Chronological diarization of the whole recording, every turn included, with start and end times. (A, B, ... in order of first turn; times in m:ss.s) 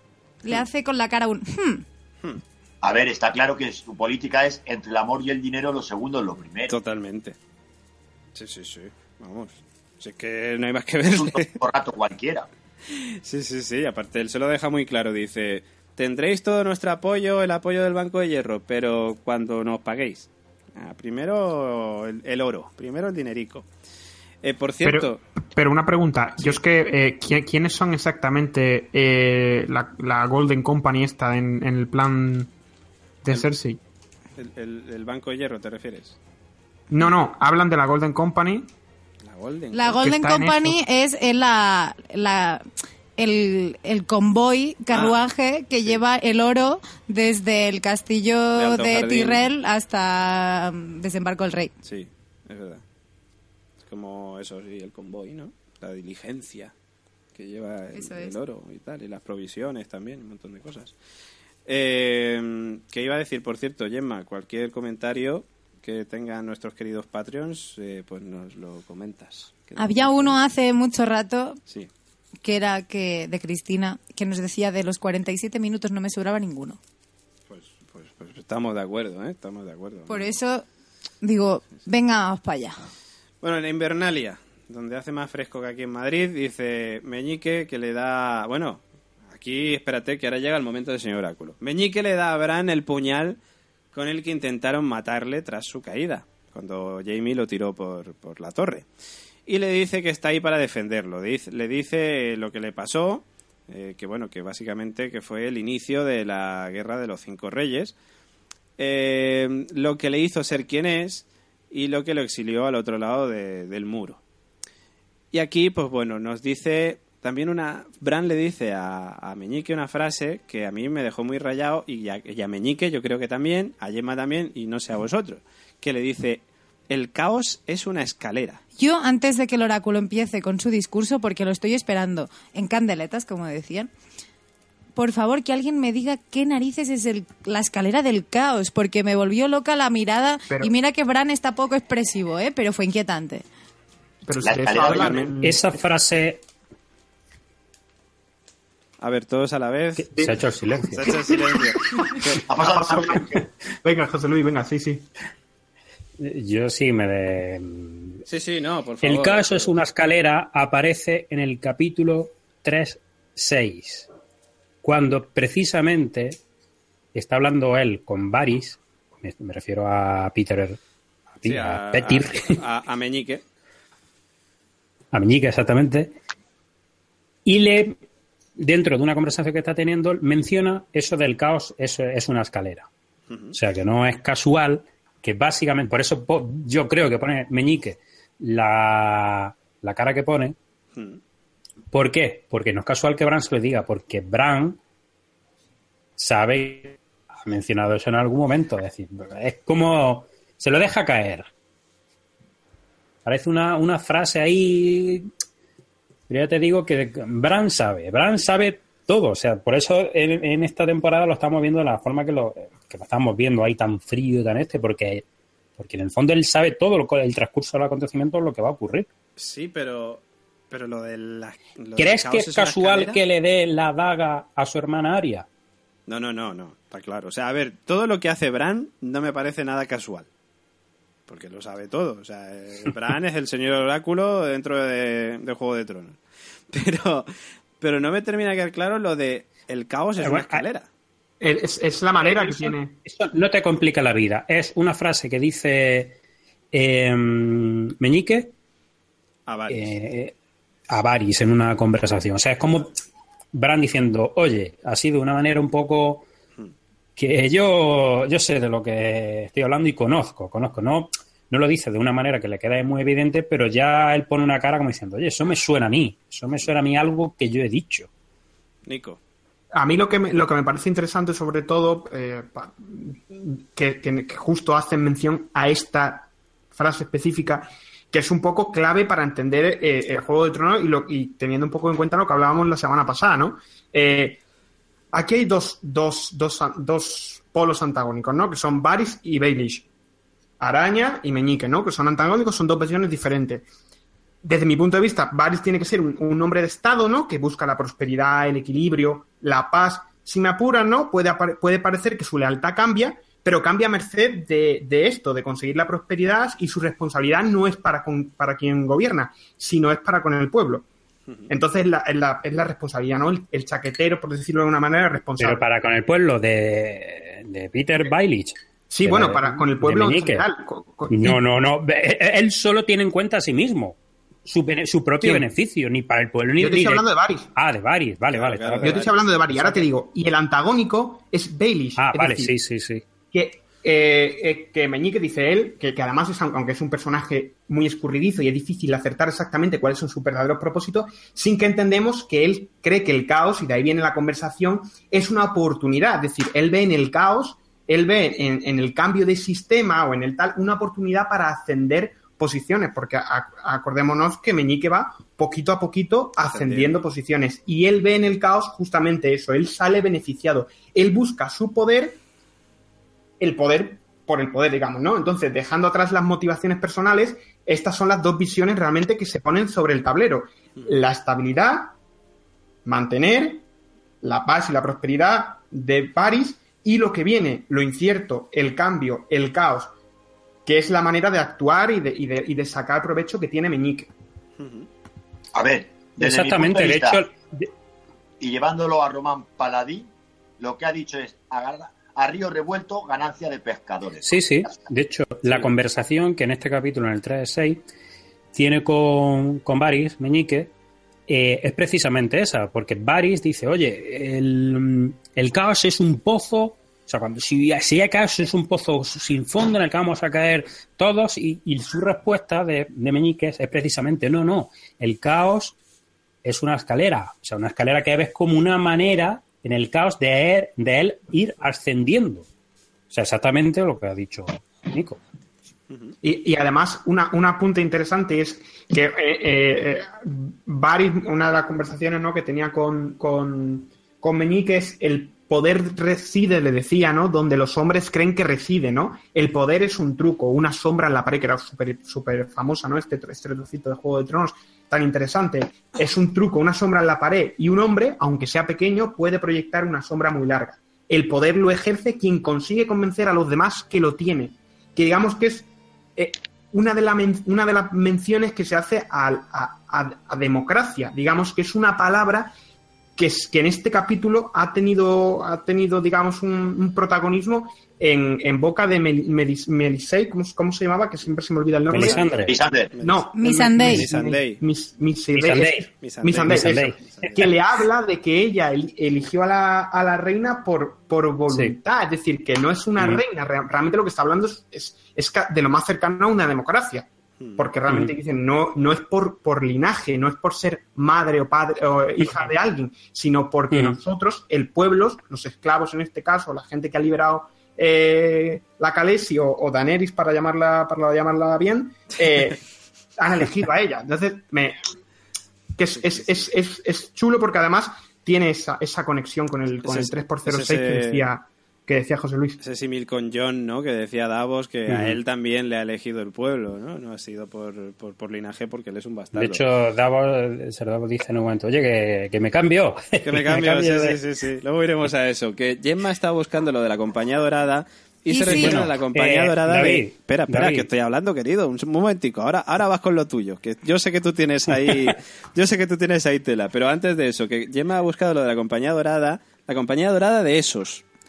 0:00.4-0:01.8 A
0:02.8-0:06.7 B
0:06.7-0:07.4 C
0:08.3-0:11.5 C
0:11.1-0:12.5 B
0:12.9-0:23.6 C
0:24.4-0:25.2 C
0:24.8-0:32.5 D
0:33.2-0:33.8 D
0:34.4-0:36.2 C
0:36.9-0:38.7 D
0:39.2-0:40.0 C
0:39.7-0:42.6 A
0:40.0-0:40.8 D
0:43.2-0:51.7 A
0:44.9-0:45.2 C
0:48.5-0:49.5 C
0:51.8-0:52.8 C
0:53.8-0:56.7 C
0:57.3-1:00.9 C
0:57.9-0:58.4 A
1:01.6-1:10.3 C
1:09.8-1:11.6 A
1:12.4-1:16.8 A
1:17.5-1:20.3 C
1:20.1-1:20.6 A
1:21.2-1:22.8 A
1:23.4-1:33.4 C
1:33.9-1:38.8 C
1:39.5-1:47.9 C
1:48.8-1:54.2 C
1:55.3-2:08.6 C
2:08.8-2:13.9 A
2:15.0-2:23.4 A
2:24.2-2:25.7 D
2:24.4-2:25.3 B
2:24.8-2:25.3 C
2:25.4-2:26.4 E
2:29.0-2:30.1 C
2:30.0-2:31.2 E
2:30.9-2:32.4 C
2:31.3-2:35.1 D
2:32.4-2:33.4 B
2:36.2-2:38.2 E
2:38.3-2:39.8 C
2:39.0-2:44.1 E
2:44.8-2:46.4 E
2:47.1-2:50.8 E
2:51.4-2:52.6 E
2:51.4-2:53.4 C
2:55.1-2:56.2 E
2:57.4-2:58.0 E
2:58.6-3:02.9 E
3:03.3-3:03.5 C
3:03.5-3:10.6 E
3:11.9-3:14.8 E
3:16.2-3:21.5 E
3:23.2-3:25.3 E
3:26.3-3:35.2 E
3:35.8-3:39.1 E
3:39.4-3:43.2 C
3:42.0-3:45.4 E
3:46.1-3:50.3 C
3:51.3-3:56.2 C
3:56.7-3:57.3 C
3:57.8-4:00.9 C
4:00.2-4:00.6 E
4:01.4-4:03.0 D
4:02.2-4:06.2 E
4:06.7-4:08.5 E
4:09.5-4:10.0 C
4:09.7-4:10.3 E
4:10.9-4:12.9 E
4:13.5-4:16.3 E
4:17.2-4:28.1 E
4:28.8-4:29.2 C
4:29.7-4:44.4 D
4:45.1-4:49.8 D
4:50.6-4:53.6 D
4:54.4-5:10.9 D
5:11.5-5:15.6 D
5:15.4-5:20.5 E
5:18.9-5:21.4 D
5:21.1-5:29.8 E
5:26.6-5:27.5 D
5:28.3-5:29.2 C
5:28.8-5:32.5 D
5:32.0-5:33.0 E
5:33.3-6:02.2 D
5:56.4-5:57.0 C
6:03.4-6:11.9 D
6:12.8-6:13.6 D
6:14.2-6:19.9 D
6:20.6-6:24.1 D
6:24.6-6:24.9 C
6:25.5-6:27.2 B
6:26.2-6:27.7 E
6:28.4-6:34.7 B
6:34.2-6:37.8 E
6:35.4-6:35.7 C
6:38.5-6:40.7 E
6:41.3-6:55.7 E
6:56.4-7:02.4 E
7:03.1-7:05.2 E
7:06.2-7:42.5 D
7:43.2-7:52.4 D
7:51.9-7:52.6 E
7:51.9-7:54.6 C
7:52.4-7:52.9 B
7:53.0-8:22.6 D
7:53.3-7:54.0 A
7:55.3-7:55.9 E
7:55.9-7:57.5 C
7:56.4-7:57.4 E
8:07.4-8:07.7 C
8:23.2-8:24.8 D
8:25.8-8:32.6 D
8:26.0-8:26.4 C
8:29.8-8:31.3 C
8:32.6-8:39.6 C
8:34.9-8:35.2 E
8:39.3-8:44.2 E
8:43.2-9:01.0 C
8:48.3-8:48.8 A
8:48.4-8:50.9 E
8:54.9-8:55.1 E